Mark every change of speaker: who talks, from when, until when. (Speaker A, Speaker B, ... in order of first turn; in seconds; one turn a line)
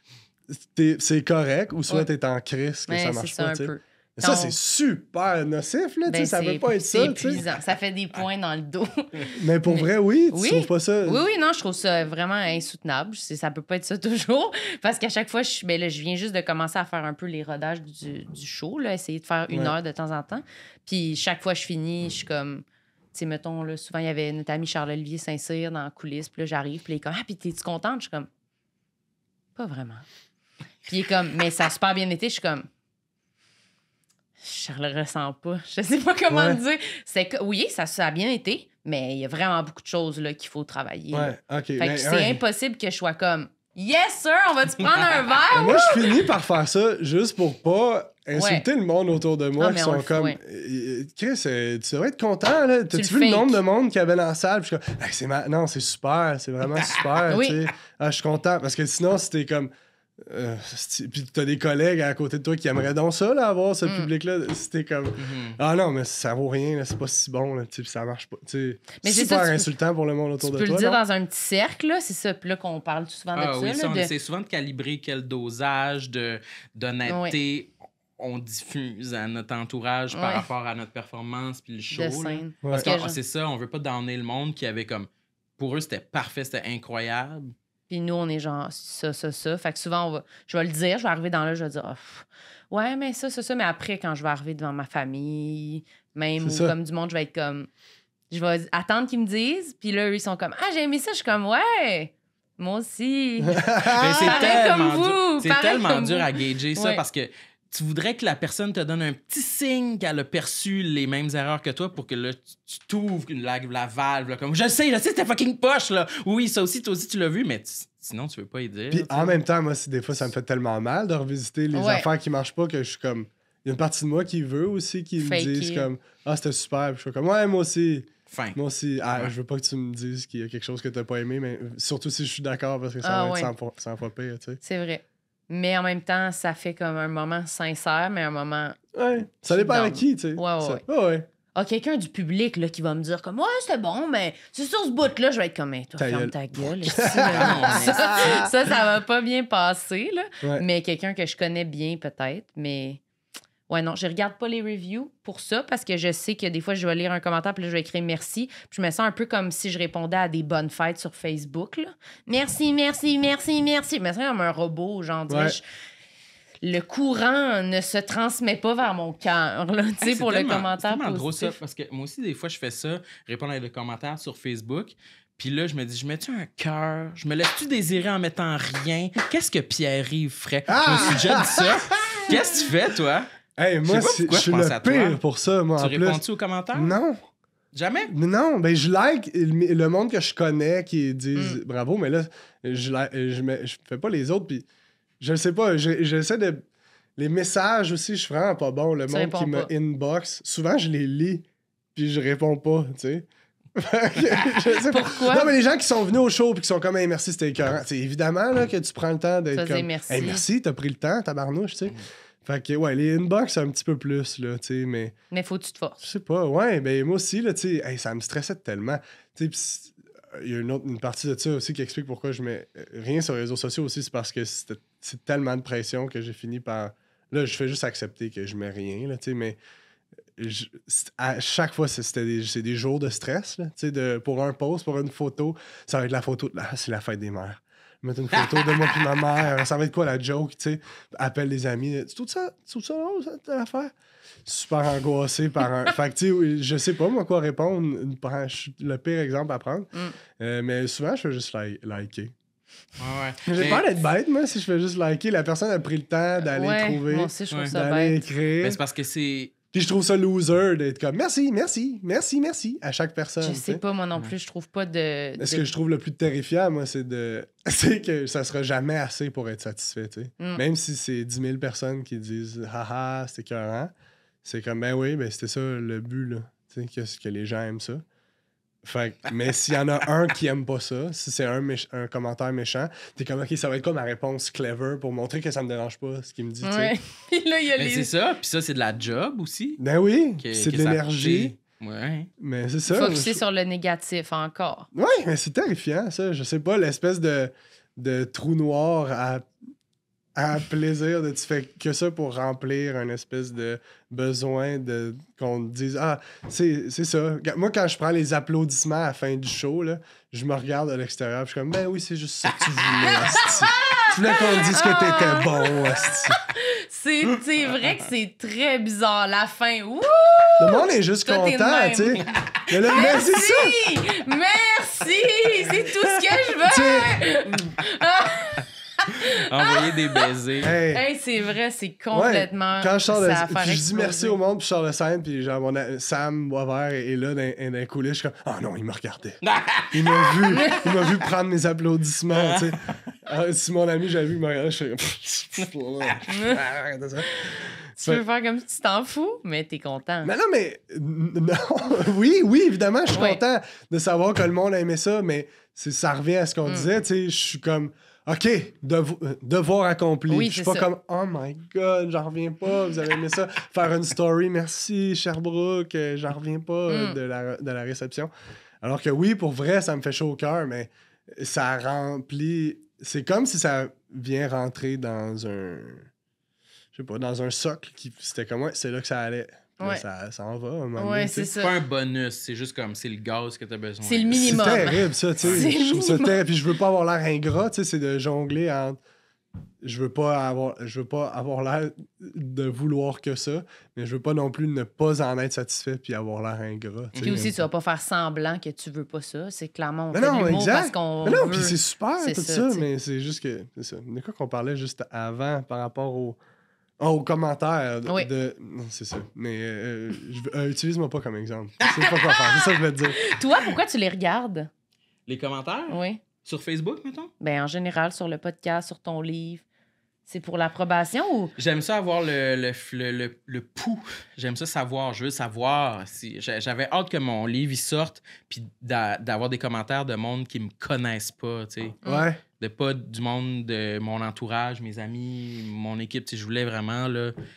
Speaker A: 0.5-7.4
Speaker B: 2.9-4.6
Speaker B: 6.1-28.3
Speaker A: 9.4-11.2
Speaker A: 19.5-19.8
Speaker B: 29.6-30.1
Speaker B: 30.9-32.7
Speaker B: 34.4-46.2
Speaker A: 36.3-36.6
Speaker A: 41.1-42.4
Speaker A: 45.5-71.0
Speaker B: 48.4-48.7
Speaker B: 49.6-50.4
Speaker B: 52.9-53.6
Speaker B: 57.3-57.7
Speaker B: 63.9-64.1
Speaker C: 65.2-65.6
Speaker B: 69.0-69.7
Speaker B: 70.4-74.1
Speaker C: 73.3-87.5
Speaker B: 77.1-77.4
Speaker B: 80.1-80.5
Speaker B: 81.9-83.2
Speaker A: 82.6-82.9
Speaker B: 87.9-97.7
Speaker A: 96.4-96.7
Speaker B: 98.3-107.0
Speaker A: 103.4-104.6
Speaker C: 103.9-119.3
Speaker A: 118.9-134.6
Speaker B: 121.7-122.1
Speaker B: 125.2-125.9
Speaker C: 128.3-128.6
Speaker B: 133.0-133.5
Speaker B: 134.6-138.8
Speaker A: 138.9-141.3
Speaker B: 139.5-140.8
Speaker B: 141.6-153.0
Speaker A: 146.0-148.5
Speaker C: 147.2-148.3
Speaker B: 153.7-165.6
Speaker A: 165.3-165.6
Speaker B: 166.6-171.6
Speaker C: 170.0-183.3
Speaker A: 180.7-182.4
Speaker A: 183.6-186.2
Speaker C: 183.9-185.2
Speaker C: 185.8-186.9
Speaker A: 186.7-187.2
Speaker C: 187.7-188.1
Speaker A: 188.1-194.7
Speaker A: 195.2-196.7
Speaker A: 197.2-215.1
Speaker B: 199.1-199.7
Speaker B: 204.8-205.5
Speaker B: 209.5-210.4
Speaker B: 215.3-216.0
Speaker A: 216.0-229.6
Speaker A: 230.4-243.9
Speaker C: 238.3-239.1
Speaker A: 244.5-252.3
Speaker C: 253.0-253.9
Speaker A: 253.5-258.8
Speaker B: 256.5-258.2
Speaker C: 258.6-259.6
Speaker A: 259.7-263.8
Speaker B: 263.4-265.7
Speaker A: 265.4-273.9
Speaker A: 274.4-278.0
Speaker A: 278.8-286.9
Speaker B: 286.6-288.1
Speaker C: 287.8-289.8
Speaker A: 289.8-291.6
Speaker C: 290.4-292.3
Speaker A: 292.4-293.4
Speaker B: 292.9-294.9
Speaker A: 294.9-299.5
Speaker A: 300.4-316.4
Speaker B: 313.0-322.2
Speaker A: 320.6-323.8
Speaker B: 322.9-330.3
Speaker A: 326.6-327.7
Speaker C: 329.4-330.8
Speaker A: 330.6-331.0
Speaker B: 330.9-334.4
Speaker A: 332.1-339.4
Speaker C: 339.4-340.5
Speaker A: 339.9-348.2
Speaker B: 340.6-340.9
Speaker C: 342.4-342.6
Speaker C: 346.1-346.6
Speaker B: 346.3-346.6
Speaker B: 347.4-350.3
Speaker A: 350.2-368.3
Speaker B: 353.1-353.4
Speaker B: 360.3-360.9
Speaker B: 366.9-367.2
Speaker A: 368.8-376.1
Speaker A: 376.9-381.5
Speaker B: 381.0-381.7
Speaker C: 381.6-384.9
Speaker B: 384.0-386.4
Speaker A: 384.4-389.0
Speaker C: 385.4-385.7
Speaker A: 389.8-397.6
Speaker C: 397.1-397.4
Speaker B: 397.2-402.9
Speaker A: 400.1-406.4
Speaker A: 407.0-413.2
Speaker C: 411.8-412.1
Speaker B: 412.0-414.7
Speaker C: 415.3-417.3
Speaker B: 415.9-416.2
Speaker B: 417.4-419.6
Speaker B: 420.3-421.5
Speaker C: 421.6-432.0
Speaker A: 432.1-432.4
Speaker C: 432.6-437.3